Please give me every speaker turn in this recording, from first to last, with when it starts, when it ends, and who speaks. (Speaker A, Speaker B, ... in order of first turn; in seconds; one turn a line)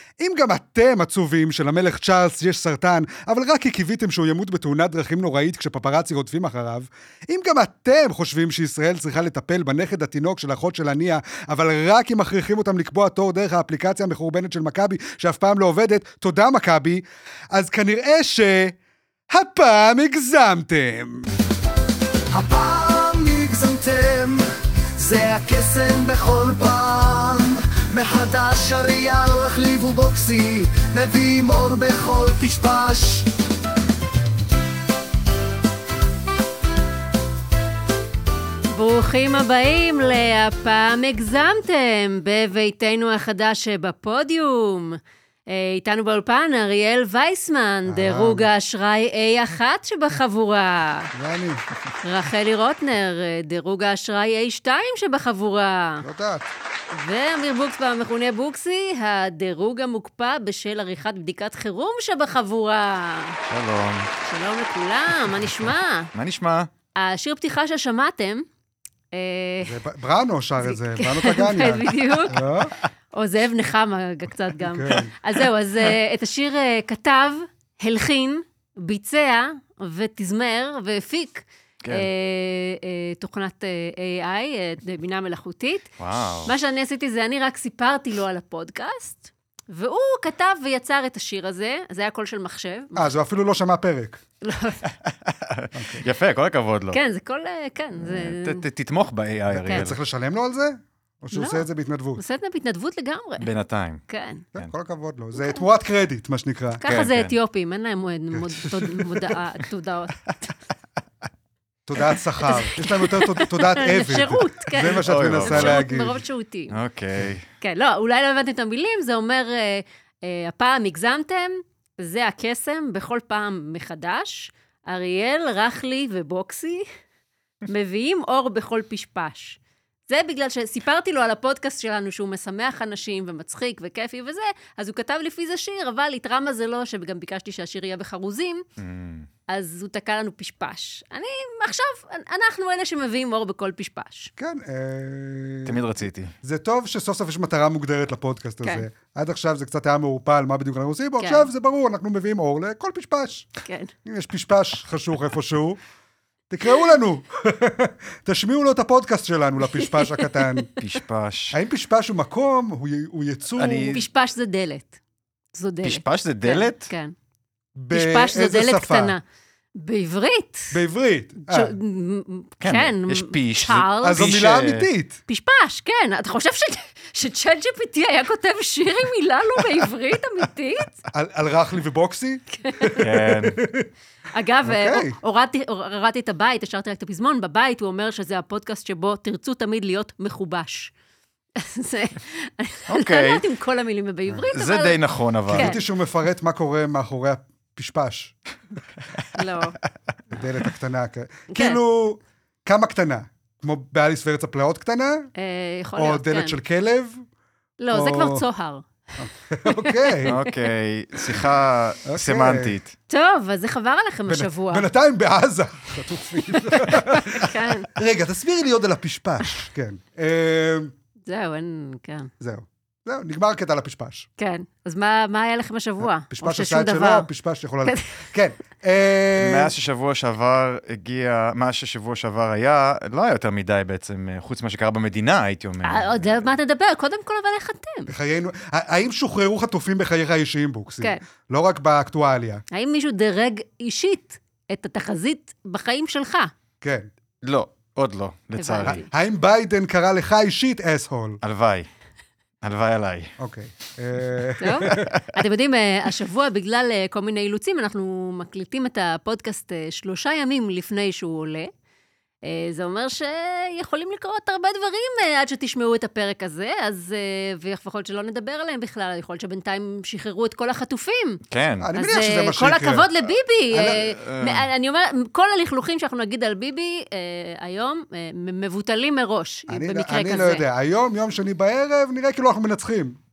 Speaker A: 0.2-18.8
Speaker A: 19.3-21.3
Speaker B: 22.3-33.3
Speaker C: 38.7-51.1
Speaker A: 47.9-48.5
Speaker A: 51.1-51.6
Speaker C: 52.0-56.0
Speaker A: 56.0-56.5
Speaker C: 56.9-63.4
Speaker D: 63.5-64.1
Speaker C: 64.2-66.1
Speaker D: 66.1-66.7
Speaker C: 67.0-68.5
Speaker C: 69.1-69.8
Speaker A: 69.6-72.7
Speaker C: 70.6-72.4
Speaker C: 73.1-93.1
Speaker A: 74.6-75.1
Speaker D: 81.8-82.1
Speaker D: 86.0-86.5
Speaker A: 93.0-94.2
Speaker C: 94.4-94.8
Speaker D: 95.0-97.0
Speaker A: 95.7-96.0
Speaker C: 96.9-98.6
Speaker D: 98.0-100.0
Speaker A: 99.5-102.2
Speaker C: 101.3-101.7
Speaker C: 102.2-103.5
Speaker D: 103.4-104.0
Speaker C: 104.1-104.5
Speaker A: 104.5-106.8
Speaker C: 106.8-110.3
Speaker D: 106.8-107.3
Speaker A: 108.3-109.0
Speaker A: 111.9-116.2
Speaker C: 112.4-116.8
Speaker D: 114.9-115.9
Speaker D: 116.7-117.5
Speaker C: 117.6-126.9
Speaker C: 127.7-138.6
Speaker D: 138.8-139.3
Speaker C: 139.5-144.3
Speaker A: 144.4-145.8
Speaker D: 145.7-146.3
Speaker A: 146.4-153.5
Speaker C: 151.2-151.5
Speaker C: 153.6-153.9
Speaker A: 154.1-155.8
Speaker A: 156.5-160.7
Speaker C: 159.8-160.6
Speaker D: 160.8-161.6
Speaker A: 161.5-164.0
Speaker D: 163.6-164.1
Speaker C: 163.9-164.9
Speaker C: 165.5-167.1
Speaker D: 165.8-166.9
Speaker A: 167.8-169.2
Speaker C: 167.9-169.2
Speaker C: 169.8-170.8
Speaker A: 170.7-171.7
Speaker C: 171.5-174.3
Speaker D: 172.6-174.9
Speaker A: 174.0-175.2
Speaker C: 175.3-181.0
Speaker A: 181.1-183.9
Speaker C: 182.5-183.1
Speaker D: 183.0-183.6
Speaker C: 184.3-190.9
Speaker A: 184.7-185.2
Speaker C: 191.6-195.0
Speaker D: 192.9-193.4
Speaker D: 194.5-195.8
Speaker A: 195.5-198.3
Speaker C: 195.5-195.8
Speaker C: 199.3-199.8
Speaker A: 200.3-205.3
Speaker C: 201.5-201.8
Speaker C: 205.4-206.6
Speaker A: 206.0-207.2
Speaker C: 207.8-208.8
Speaker A: 207.9-208.4
Speaker A: 209.2-210.3
Speaker C: 209.7-210.7
Speaker D: 210.3-212.9
Speaker A: 212.1-212.8
Speaker C: 213.1-214.9
Speaker A: 214.3-220.9
Speaker C: 216.8-217.9
Speaker C: 221.3-222.3
Speaker A: 222.4-224.3
Speaker C: 224.4-227.3
Speaker A: 226.0-229.7
Speaker D: 229.4-236.5
Speaker C: 235.8-238.1
Speaker A: 238.1-242.6
Speaker C: 242.7-246.5
Speaker A: 246.8-247.1
Speaker D: 247.4-249.0
Speaker C: 248.6-249.1
Speaker A: 248.8-251.4
Speaker D: 251.4-251.9
Speaker D: 252.6-253.3
Speaker A: 253.4-255.1
Speaker C: 254.6-261.7
Speaker D: 254.9-255.2
Speaker C: 262.4-271.4
Speaker D: 271.5-271.9
Speaker A: 271.8-273.1
Speaker C: 272.0-280.6
Speaker A: 273.7-274.0
Speaker D: 273.8-274.7
Speaker A: 279.7-283.2